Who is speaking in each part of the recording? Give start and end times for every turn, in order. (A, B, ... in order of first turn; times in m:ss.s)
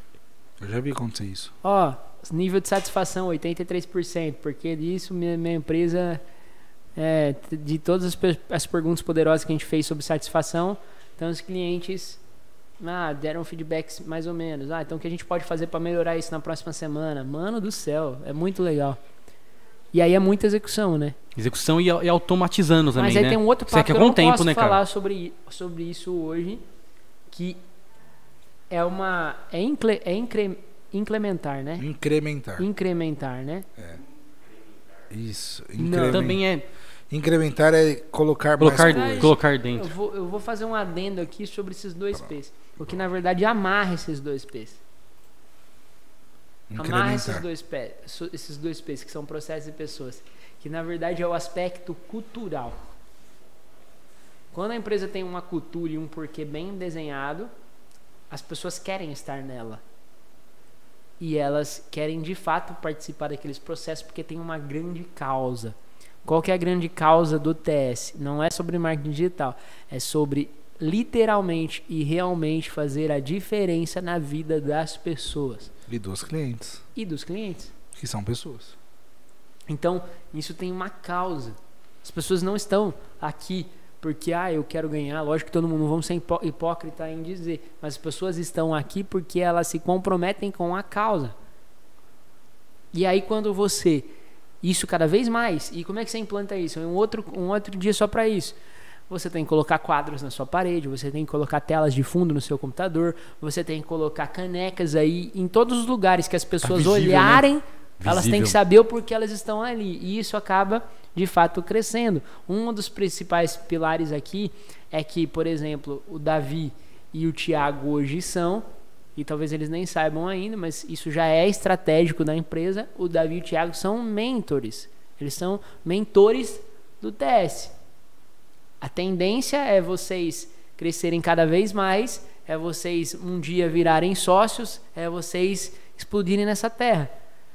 0:00.6-0:01.5 A
0:01.6-0:06.2 B
0:07.0-0:12.2 B
0:12.8-0:19.0 B
0:19.9-0:21.2 B
0:21.4-0:24.8 C
0:23.0-0:26.6 B
0:27.3-0:27.6 B
0:28.7-0:31.8 B
0:31.8-0:32.7 A
0:32.6-0:33.6 B
0:35.1-0:36.4 A
0:35.8-0:36.3 B
0:36.1-0:36.6 C
0:37.1-0:39.3 A
0:38.6-0:39.9 C
0:38.6-0:44.8 B
0:46.7-0:47.4 A
0:46.8-0:52.8 B
0:54.5-0:57.5 B
0:58.3-0:59.8 B
1:01.2-1:15.7 B
1:15.9-1:16.8 A
1:16.9-1:17.7 B
1:18.0-1:18.7 A
1:19.7-1:31.3 B
1:32.9-1:34.1 B
1:34.6-1:38.6 B
1:39.1-1:58.6 B
1:46.6-1:47.4 C
1:48.0-1:48.6 C
1:59.2-2:07.7 B
2:08.8-2:17.1 B